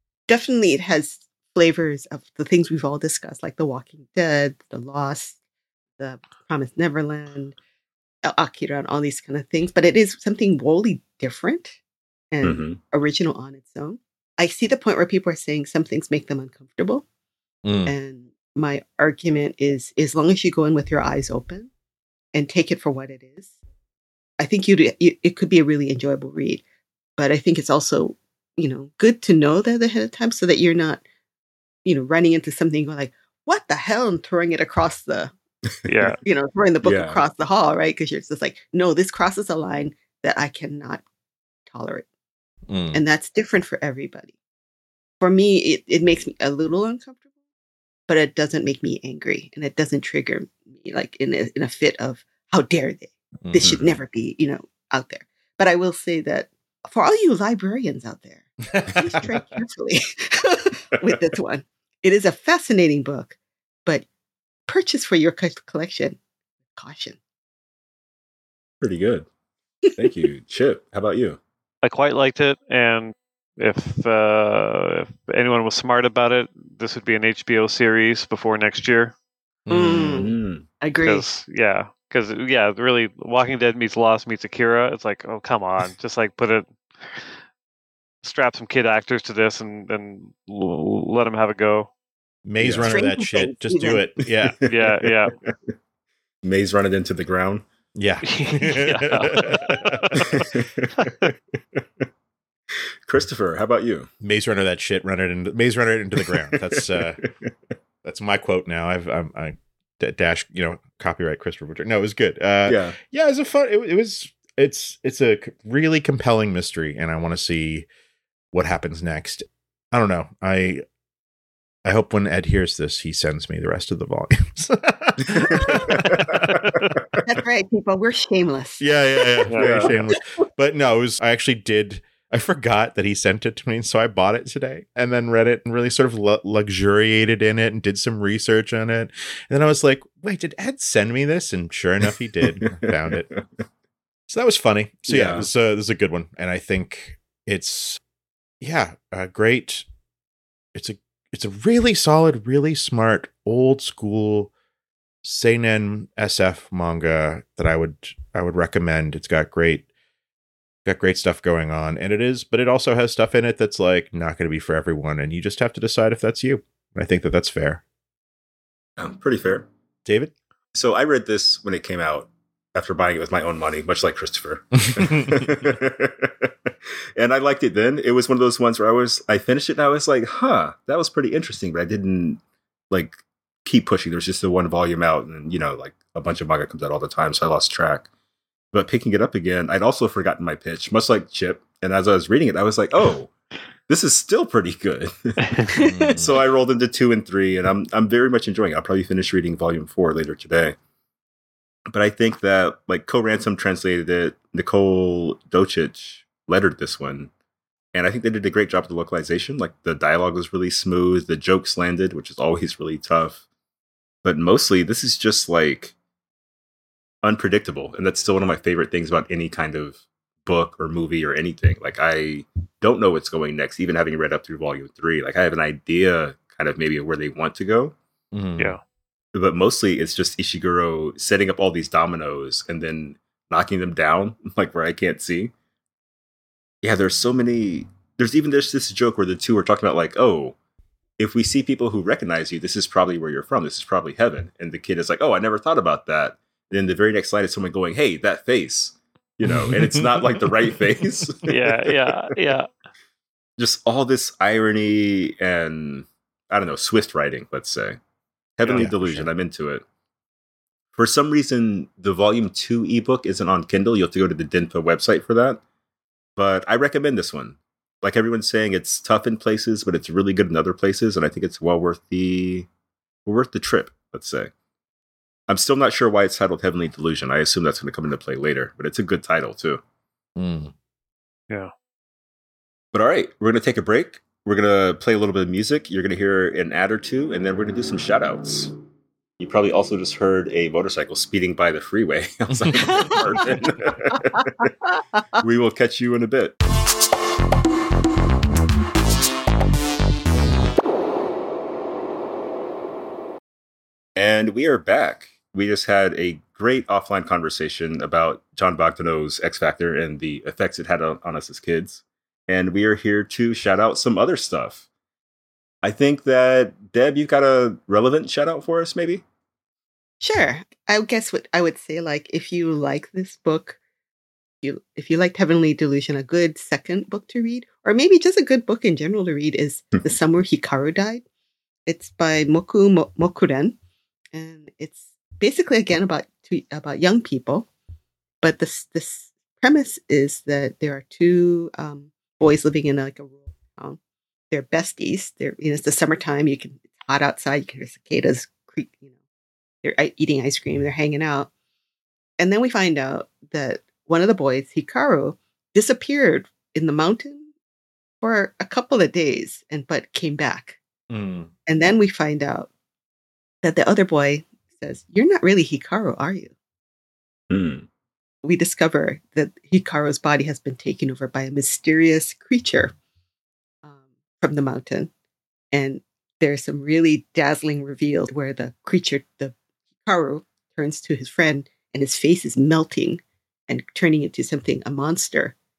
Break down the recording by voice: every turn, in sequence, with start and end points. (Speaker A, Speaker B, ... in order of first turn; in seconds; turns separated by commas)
Speaker A: 0.3-5.4, Speaker A: 6.0-7.6, Speaker A: 8.2-11.8, Speaker A: 12.3-17.0, Speaker B: 12.4-12.8, Speaker C: 17.6-17.9, Speaker A: 17.9-21.7, Speaker A: 22.3-23.5, Speaker A: 24.4-26.6, Speaker A: 27.2-31.0, Speaker A: 31.9-35.3, Speaker D: 35.9-36.2, Speaker A: 36.2-41.0, Speaker B: 36.8-37.2, Speaker A: 41.7-42.1, Speaker C: 42.7-43.0, Speaker A: 42.9-44.3, Speaker A: 45.2-47.2, Speaker A: 48.1-64.1, Speaker C: 53.5-53.8, Speaker A: 64.7-66.2, Speaker A: 66.8-67.2, Speaker B: 68.8-69.3, Speaker B: 70.0-71.4, Speaker D: 71.8-79.1, Speaker C: 79.7-80.3, Speaker A: 79.7-81.3, Speaker B: 80.1-80.7, Speaker D: 81.0-87.3, Speaker D: 88.2-91.9, Speaker C: 92.5-94.6, Speaker B: 92.6-92.9, Speaker A: 92.8-94.0, Speaker B: 94.6-95.7, Speaker D: 94.7-95.3, Speaker B: 96.4-97.7, Speaker C: 98.0-100.5, Speaker D: 98.2-100.3, Speaker B: 100.3-100.9, Speaker D: 101.0-101.3, Speaker B: 103.1-104.1, Speaker C: 104.2-107.2, Speaker B: 106.5-107.3, Speaker C: 108.0-117.9, Speaker B: 112.7-113.0, Speaker C: 118.5-120.8, Speaker C: 121.8-127.2, Speaker B: 125.2-126.6, Speaker A: 125.3-126.0, Speaker D: 126.6-126.9, Speaker A: 127.2-130.2, Speaker C: 128.8-143.3, Speaker B: 129.6-129.9, Speaker B: 142.6-143.4, Speaker C: 144.3-148.0, Speaker B: 145.1-145.5, Speaker C: 148.6-149.9, Speaker C: 150.8-154.5, Speaker C: 155.2-159.9, Speaker C: 160.8-167.8, Speaker B: 169.0-169.7, Speaker C: 170.1-170.3, Speaker B: 170.7-176.5, Speaker C: 174.9-175.5, Speaker B: 177.2-182.4, Speaker B: 182.9-188.1, Speaker B: 188.7-193.3, Speaker B: 193.9-195.4, Speaker A: 195.7-196.4, Speaker C: 195.7-196.3, Speaker B: 196.2-200.8, Speaker B: 201.9-207.3, Speaker B: 207.9-213.4, Speaker B: 214.2-215.9, Speaker B: 217.2-227.9, Speaker C: 228.3-228.8, Speaker B: 229.3-235.5, Speaker B: 236.8-240.6, Speaker B: 241.2-251.5, Speaker C: 249.4-251.3, Speaker D: 251.5-252.7, Speaker B: 253.6-258.0, Speaker B: 258.6-259.8, Speaker C: 258.7-259.3, Speaker B: 260.9-265.6, Speaker B: 266.4-272.7, Speaker B: 273.3-274.5, Speaker B: 275.5-279.8, Speaker C: 280.4-280.7, Speaker B: 282.9-288.8, Speaker B: 289.4-294.7, Speaker C: 292.5-293.4, Speaker A: 292.8-294.7, Speaker B: 295.4-296.6, Speaker B: 304.2-314.9, Speaker B: 315.8-319.2, Speaker A: 320.2-323.8, Speaker A: 324.6-331.2, Speaker A: 331.9-333.8, Speaker A: 334.3-337.7, Speaker A: 338.4-344.0, Speaker A: 344.5-349.1, Speaker A: 349.8-351.5, Speaker A: 352.4-357.5, Speaker A: 358.2-360.8, Speaker C: 361.1-361.5, Speaker A: 361.7-362.7, Speaker A: 363.6-366.5, Speaker B: 367.5-367.9, Speaker A: 368.4-372.9, Speaker A: 373.8-375.1, Speaker A: 375.7-385.6